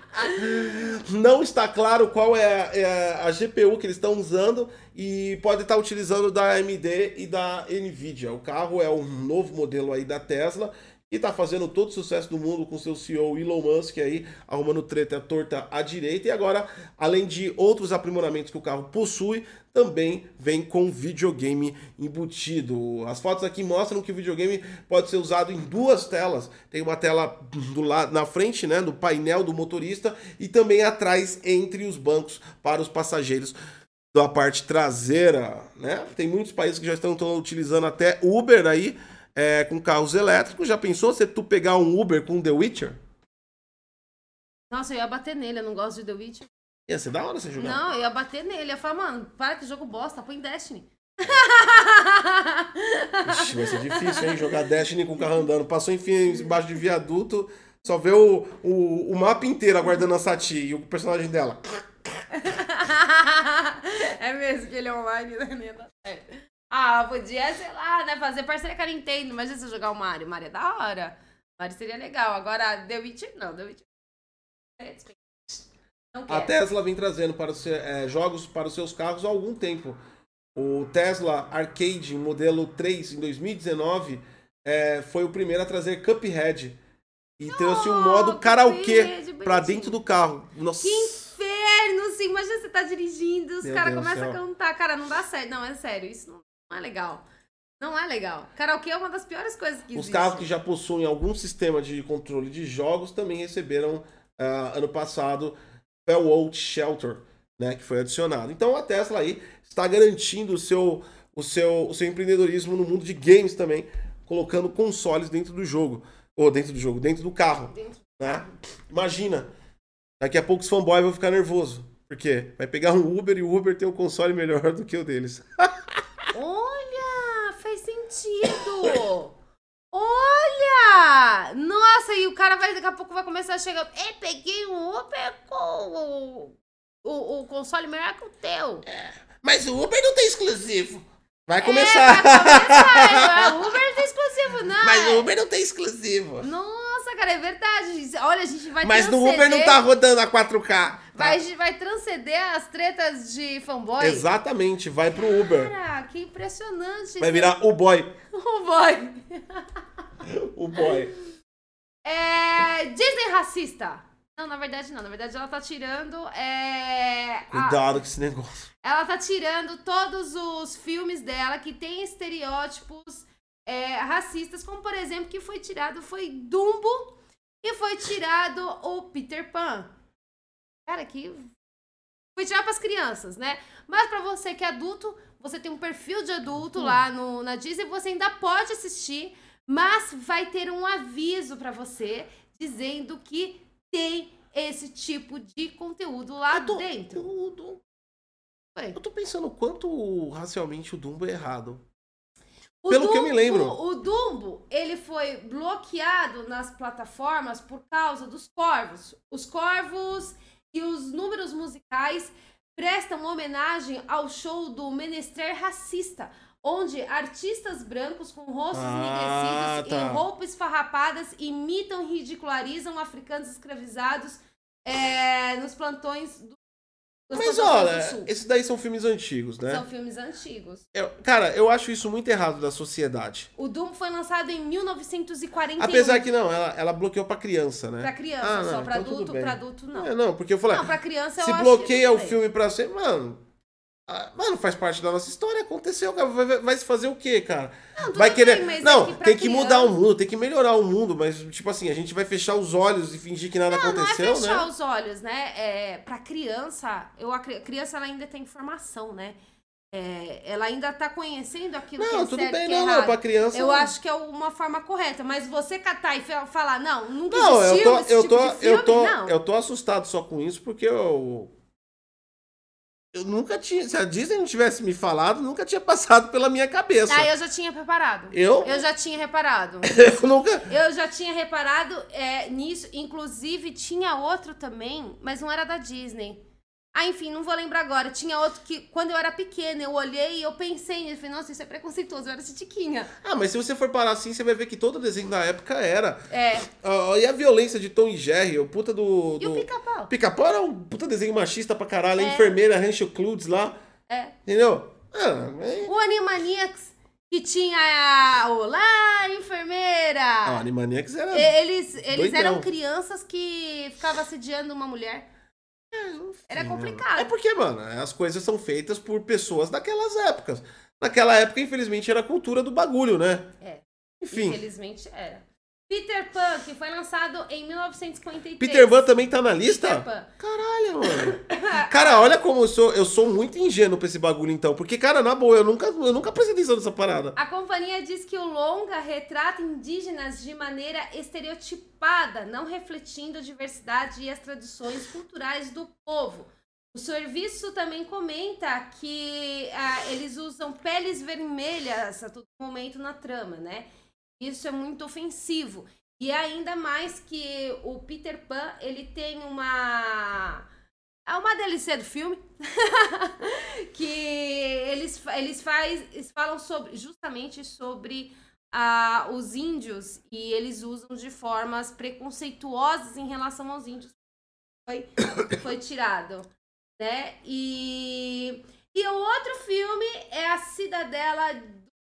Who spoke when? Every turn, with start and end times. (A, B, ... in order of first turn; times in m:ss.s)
0:00.2-0:33.5 A
0:34.1-0:43.0 A
0:44.7-0:46.5 B
0:46.9-0:47.8 A
0:47.6-0:54.5 B
0:53.2-1:02.2 A
1:02.4-1:13.9 B
1:14.8-1:16.5 B
1:16.3-1:20.0 A
1:20.5-1:26.8 A
1:27.4-1:31.2 A
1:27.5-1:30.0 B
1:30.8-1:37.2 B
1:33.6-1:34.4 A
1:37.8-1:40.5 B
1:39.9-1:59.5 A
1:57.7-1:58.5 B
2:00.2-2:05.9 A
2:06.3-2:09.4 B
2:09.9-2:18.8 B
2:18.9-2:23.7 A
2:21.6-2:25.3 B
2:24.8-2:26.5 A
2:26.4-2:29.8 B
2:28.8-2:31.4 A
2:31.1-2:34.3 B
2:34.0-2:35.7 A
2:35.2-2:39.8 B
2:37.2-2:38.1 A
2:40.2-2:41.1 A
2:40.8-2:41.0 B
2:42.0-2:47.8 B
2:47.5-2:48.5 A
2:48.8-2:59.9 B
3:00.8-3:01.5 B
3:02.4-3:17.2 B
3:16.5-3:17.8 A
3:18.9-3:21.8 A
3:22.8-3:46.6 B
3:22.9-3:23.8 A
3:38.7-3:40.2 A
3:47.3-3:48.3 B
3:47.3-3:49.8 A
3:49.6-3:50.8 B
3:50.9-3:53.5 A
3:53.6-3:56.2 B
3:55.8-4:00.9 A
3:58.0-4:00.1 B
4:00.7-4:02.4 B
4:01.4-4:03.4 A
4:04.1-4:14.7 A
4:08.0-4:10.0 B
4:13.7-4:19.4 B
4:19.9-4:29.4 B
4:22.0-4:23.9 A
4:27.3-4:31.5 A
4:33.1-4:37.3 A
4:37.1-4:40.1 B
4:38.3-4:38.8 A
4:39.8-4:40.7 A
4:40.6-4:46.4 B
4:46.9-4:53.1 B
4:53.2-5:03.8 A
4:56.3-4:56.7 B
4:59.4-5:00.1 B
5:02.2-5:02.6 B
5:04.1-5:04.4 B
5:04.4-5:05.9 A
5:05.8-5:10.6 B
5:10.4-5:11.5 A
5:11.3-5:15.3 B
5:12.1-5:12.7 A
5:15.9-5:23.5 A
5:16.5-5:17.3 B
5:23.6-5:29.1 B
5:24.2-5:24.6 A
5:28.6-5:37.4 A
5:29.6-5:30.3 B
5:31.0-5:32.3 B
5:37.4-6:00.6 B
6:01.3-6:14.2 B
6:14.8-6:16.5 B
6:17.0-6:21.9 B